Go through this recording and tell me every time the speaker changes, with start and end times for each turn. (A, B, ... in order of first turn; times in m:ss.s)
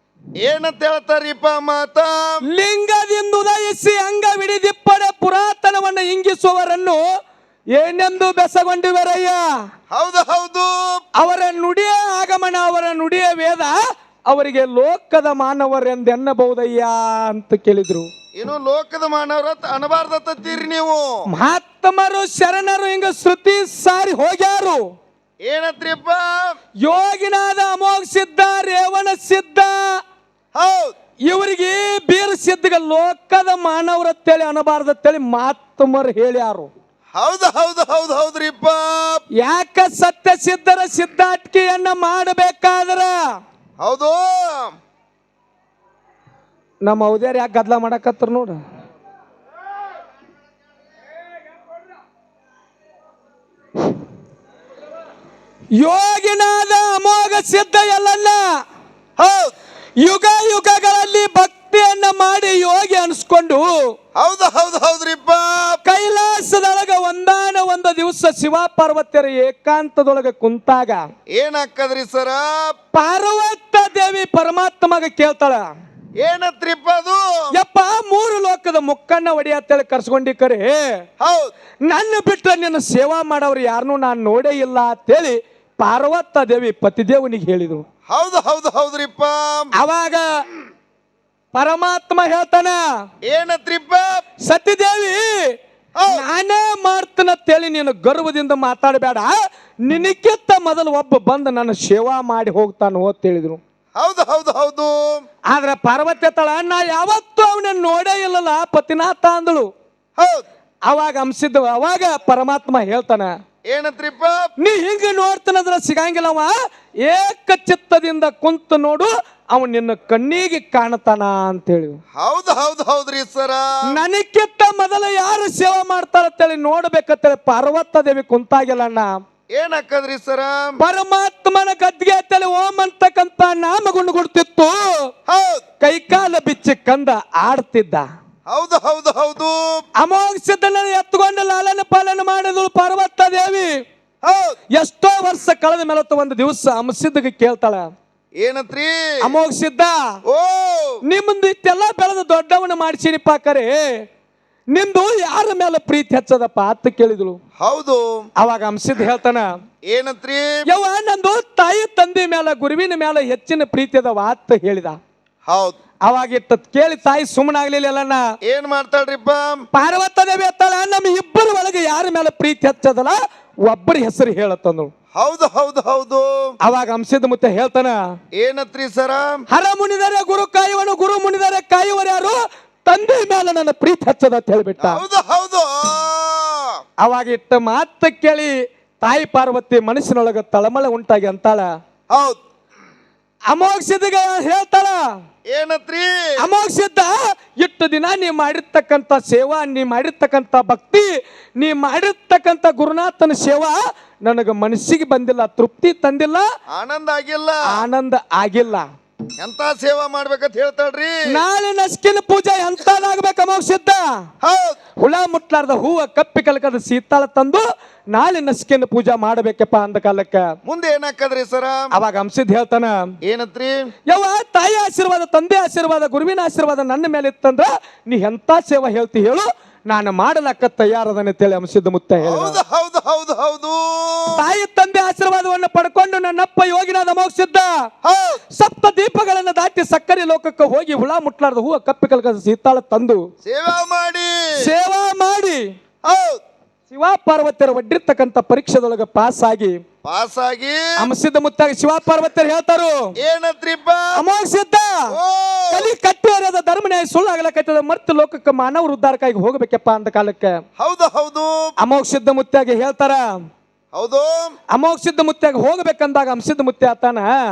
0:00.4-0:02.1 A
0:02.5-0:07.0 B
0:07.8-0:09.4 B
0:09.9-0:10.7 A
0:11.2-0:18.1 B
0:18.3-0:21.0 A
0:21.3-0:24.8 B
0:25.4-0:26.4 A
0:26.8-0:29.8 B
0:30.5-0:30.9 A
0:31.3-0:36.7 B
0:37.2-0:39.2 A
0:39.4-0:43.2 B
0:43.8-0:44.7 A
0:46.8-0:48.6 B
0:55.8-0:58.4 B
0:59.2-0:59.5 A
1:00.0-1:03.9 B
1:04.2-1:05.8 A
1:05.8-1:11.0 B
1:11.3-1:12.6 A
1:12.9-1:15.6 B
1:16.2-1:17.2 A
1:17.5-1:21.0 B
1:21.2-1:21.5 A
1:21.9-1:27.8 B
1:28.1-1:29.7 A
1:29.8-1:30.2 B
1:31.5-1:32.8 B
1:33.3-1:34.0 A
1:34.4-1:35.5 B
1:36.0-1:36.2 A
1:36.1-1:39.3 B
1:39.8-1:43.6 B
1:44.0-1:45.2 A
1:45.5-1:49.7 B
1:50.2-1:50.4 A
1:50.9-1:53.3 B
1:53.7-1:54.3 A
1:54.6-1:56.5 B
1:57.0-2:02.0 B
2:02.2-2:03.8 A
2:03.9-2:09.1 B
2:09.6-2:10.7 A
2:10.8-2:15.1 B
2:15.3-2:15.6 A
2:15.8-2:18.1 B
2:18.5-2:19.6 A
2:20.0-2:23.7 B
2:24.2-2:24.6 A
2:24.7-2:27.9 B
2:28.4-2:28.9 A
2:29.2-2:30.0 B
2:30.3-2:31.0 A
2:31.0-2:34.0 B
2:34.7-2:37.4 B
2:37.6-2:38.3 A
2:38.4-2:39.5 B
2:39.8-2:40.6 A
2:40.7-2:45.0 B
2:45.5-2:45.8 A
2:46.0-2:48.2 B
2:48.4-2:49.6 A
2:49.7-2:54.9 B
2:55.2-2:56.4 A
2:56.6-2:58.0 B
2:58.4-2:59.3 A
2:59.5-3:05.0 B
3:04.8-3:06.7 A
3:07.0-3:08.5 B
3:09.0-3:11.6 B
3:12.1-3:12.4 A
3:13.5-3:15.0 B
3:15.5-3:16.1 A
3:16.4-3:21.1 B
3:21.6-3:26.4 B
3:26.7-3:27.6 A
3:27.7-3:28.9 B
3:29.4-3:31.2 A
3:31.3-3:34.2 B
3:34.4-3:34.8 A
3:35.0-3:40.5 B
3:40.6-3:41.9 A
3:41.9-3:43.1 B
3:43.2-3:43.7 A
3:44.1-3:52.6 B
3:52.2-3:54.4 A
3:54.4-3:57.7 B
3:58.0-3:58.4 A
3:58.5-4:03.2 B
4:03.4-4:04.3 A
4:04.6-4:05.6 B
4:06.0-4:06.4 A
4:06.9-4:09.8 B
4:10.0-4:10.8 A
4:11.0-4:12.9 B
4:13.2-4:14.1 A
4:14.1-4:15.0 B
4:15.1-4:15.9 A
4:15.7-4:20.6 B
4:20.8-4:21.6 A
4:21.8-4:23.2 B
4:23.9-4:24.5 A
4:24.7-4:27.3 B